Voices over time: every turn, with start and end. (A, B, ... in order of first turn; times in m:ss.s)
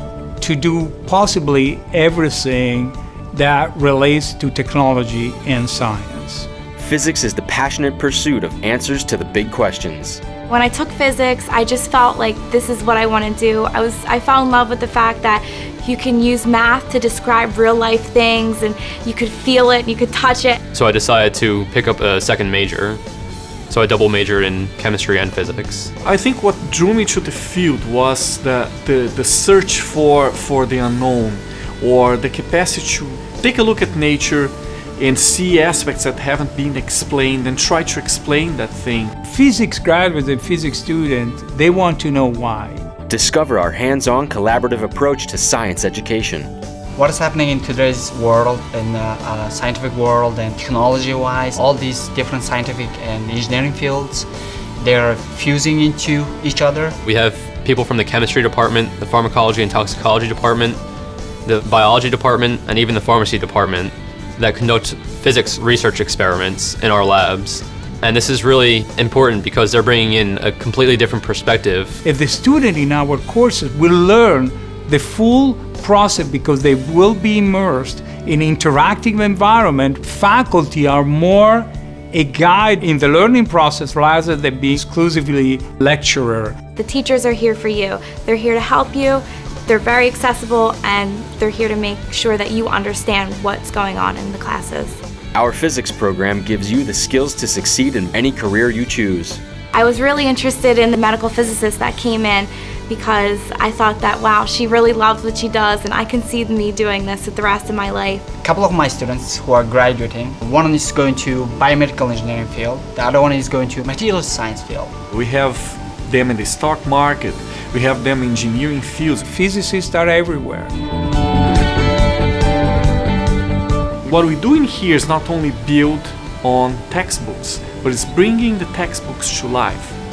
0:00.4-0:06.5 A
0:06.8-0:10.2 B
0:10.5-0:20.6 C
0:20.7-0:23.0 D
0:23.7-0:25.9 D
0:26.0-0:39.1 E
0:39.2-0:42.8 A
0:43.1-0:46.5 B
0:47.0-0:54.3 F
0:54.8-0:57.0 F
0:57.0-1:00.8 D
1:01.4-1:12.0 D
1:12.0-1:26.6 A
1:26.8-1:35.0 C
1:35.3-1:39.4 B
1:39.7-1:48.2 C
1:48.4-1:54.9 F
1:55.1-1:59.2 E
1:59.3-2:00.7 A
2:04.0-2:10.0 E